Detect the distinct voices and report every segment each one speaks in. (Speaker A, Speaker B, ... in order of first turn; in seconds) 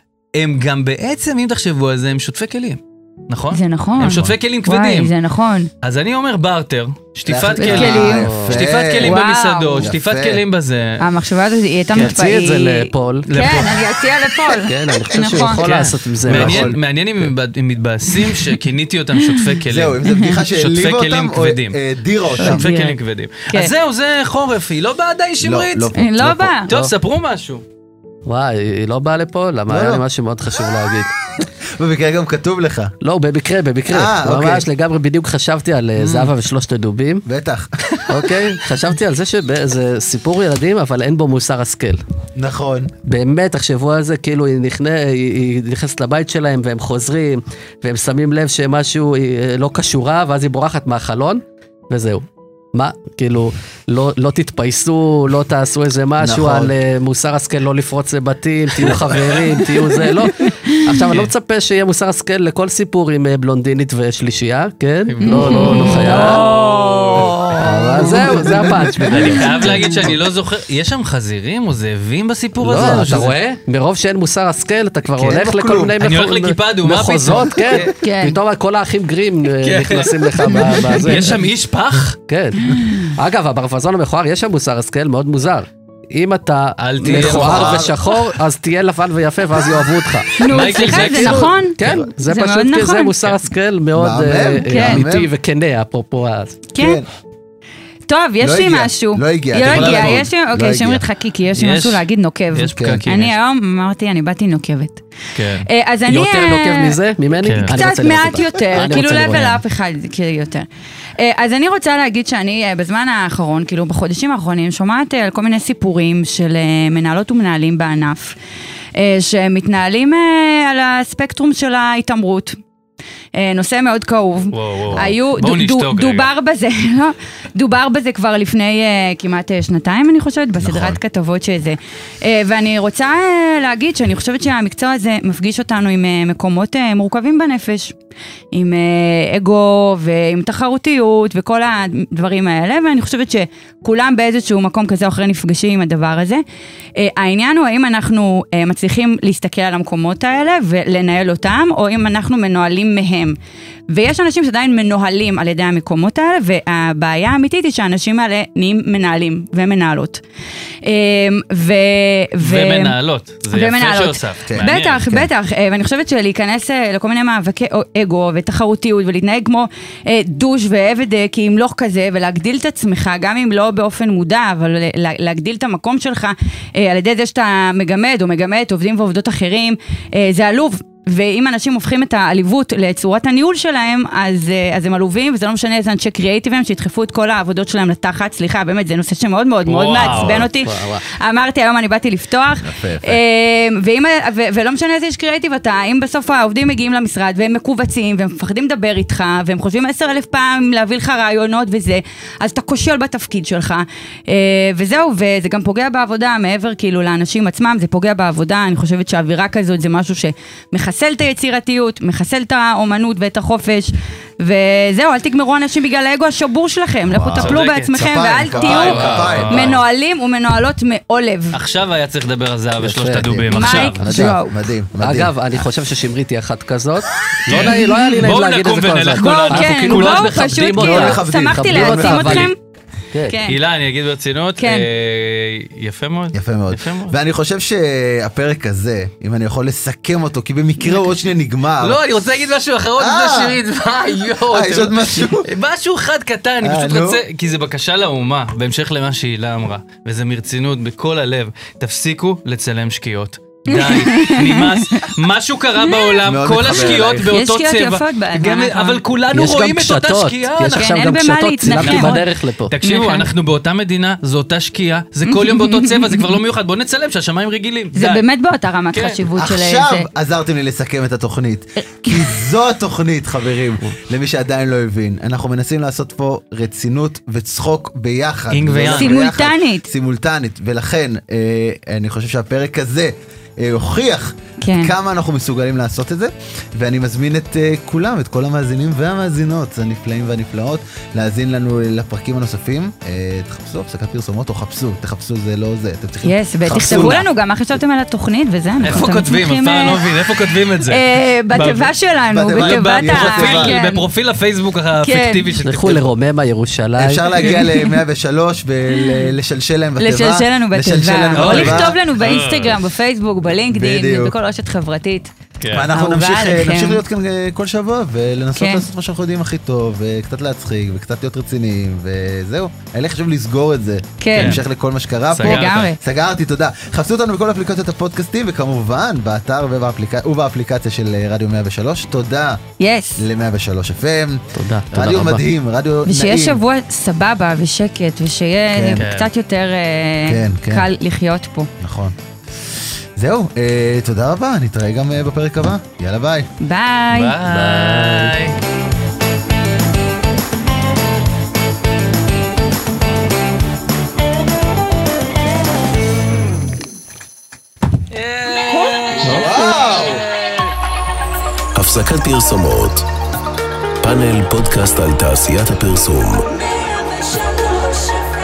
Speaker A: 0.4-5.1, 5.8-11.0, 13.3-13.9, 15.3-21.8, 22.4-27.6, 65.1-67.5, 69.1-73.3, 76.0-77.9, 79.6-82.2, 86.8-88.3, 90.4-91.9, 99.6-100.2, 101.5-103.4, 105.3-105.7, 107.4-107.8, 124.5-126.3, 162.4-165.1, 189.7-190.5, 217.3-219.8, 221.5-224.2, 227.5-230.5, 233.5-237.2, 241.8-261.1, 261.6-268.3, 268.9-269.2, 278.5-279.3, 296.8-297.2, 298.8-301.9, 302.5-306.1, 311.3-312.8, 315.6-315.9, 324.4-324.6, 325.4-325.9, 339.0-339.3, 347.1-348.6, 358.1-359.8
Speaker B: 3.5-5.7, 7.6-8.3, 9.0-9.9, 11.0-15.8, 18.2-18.5, 20.1-20.4, 22.4-23.7, 25.9-26.7, 65.2-66.5, 69.1-70.1, 78.0-78.4, 80.5-81.1, 90.4-93.1, 94.7-95.0, 96.7-97.0, 98.1-105.0, 105.6-107.0, 107.6-110.7, 111.2-118.3, 119.0-122.6, 123.3-137.9, 138.5-146.4, 147.0-153.4, 153.9-160.2, 160.8-162.9, 163.5-221.6, 223.5-224.6, 227.7-228.2, 229.2-232.6, 233.3-233.6, 234.6-234.9, 253.7-255.1, 255.8-256.2, 257.3-259.0, 260.7-262.2, 262.8-263.3, 265.3-266.3, 267.9-270.1, 278.9-279.9, 284.6-284.9, 296.2-300.0, 300.9-304.0, 305.0-305.5, 307.4-307.9, 308.9-309.2, 310.0-315.3, 315.9-317.0, 318.6-318.8, 324.2-324.6, 325.4-326.0, 332.8-333.2, 336.1-341.7, 346.6-347.4
Speaker C: 7.3-9.2, 9.8-10.4, 16.3-16.8, 19.7-22.7, 25.4-26.6, 29.7-30.0, 31.8-32.9, 33.9-34.7, 36.0-36.3, 37.3-37.8, 42.4-42.9, 56.2-56.7, 67.6-69.5, 72.7-73.3, 75.2-76.0, 87.1-87.9, 91.8-92.1, 94.0-95.3, 96.8-97.1, 98.4-101.0, 102.7-103.0, 124.9-125.2, 130.6-131.0, 164.5-165.3, 190.0-190.5, 192.6-193.2, 217.1-219.8, 223.2-225.4, 230.8-232.5, 236.3-242.0, 243.0-243.6, 244.5-245.5, 246.6-247.2, 256.2-257.3, 269.4-297.2, 302.3-303.8, 307.0-312.0, 313.7-314.4, 315.7-332.6, 333.2-336.6, 338.7-339.1, 340.2-340.9, 341.8-342.2, 343.2-346.5, 359.2-360.2
Speaker D: 8.0-8.7, 11.9-13.6, 14.6-16.7, 26.7-26.9, 28.3-31.1, 33.0-37.2, 38.1-42.0, 43.0-70.0, 72.6-81.4, 82.3-96.6, 106.0-109.6, 190.5-191.0, 219.0-219.4, 222.8-223.4, 225.0-232.5, 233.1-233.4, 259.3-262.7, 305.6-307.4, 334.5-335.4, 347.5-348.3
Speaker E: 361.8-363.1, 364.0-366.5